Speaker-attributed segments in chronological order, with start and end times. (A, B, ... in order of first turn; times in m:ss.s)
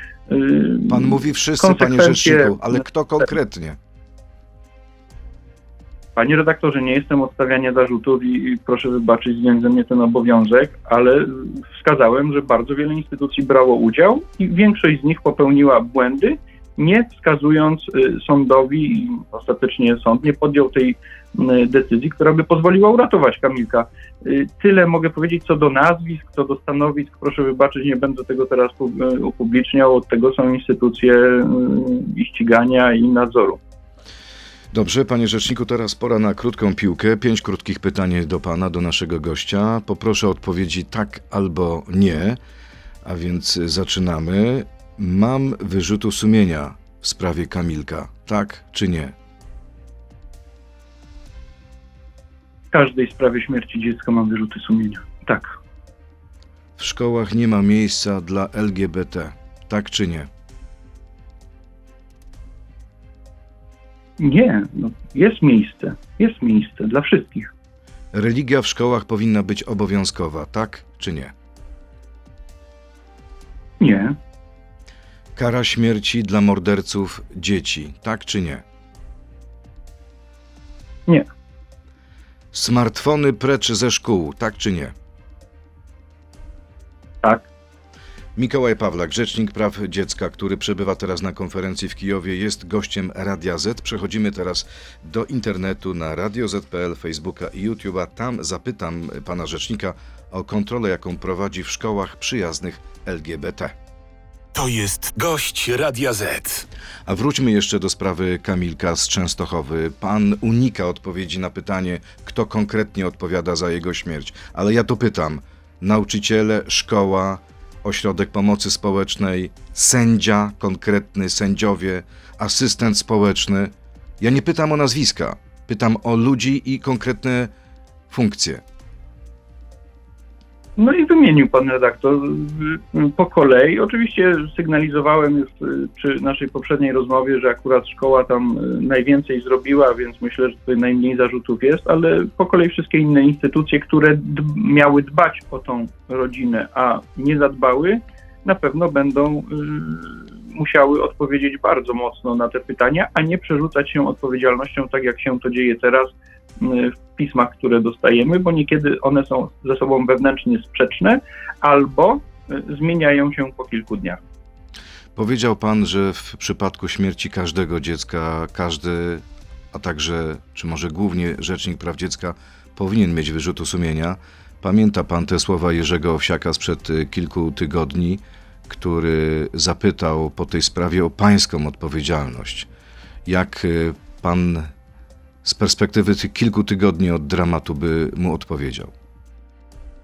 0:00.3-0:02.8 A
0:00.9-0:03.8 B
0:06.2-0:33.6 A
0:34.7-0:42.4 B
0:43.0-0:49.2 B
0:52.7-0:55.6 A
0:56.8-1:00.3 B
1:04.2-1:07.5 A
1:08.1-1:11.3 B
1:13.8-1:14.2 A
1:15.4-1:18.6 B
1:22.5-1:24.9 B
1:28.4-1:43.8 B
1:44.6-1:46.7 C
1:47.1-2:07.5 B
2:08.1-2:08.6 B
2:10.8-2:44.2 A
2:45.2-3:02.7 B
3:03.3-3:04.7 B
3:05.4-3:08.9 B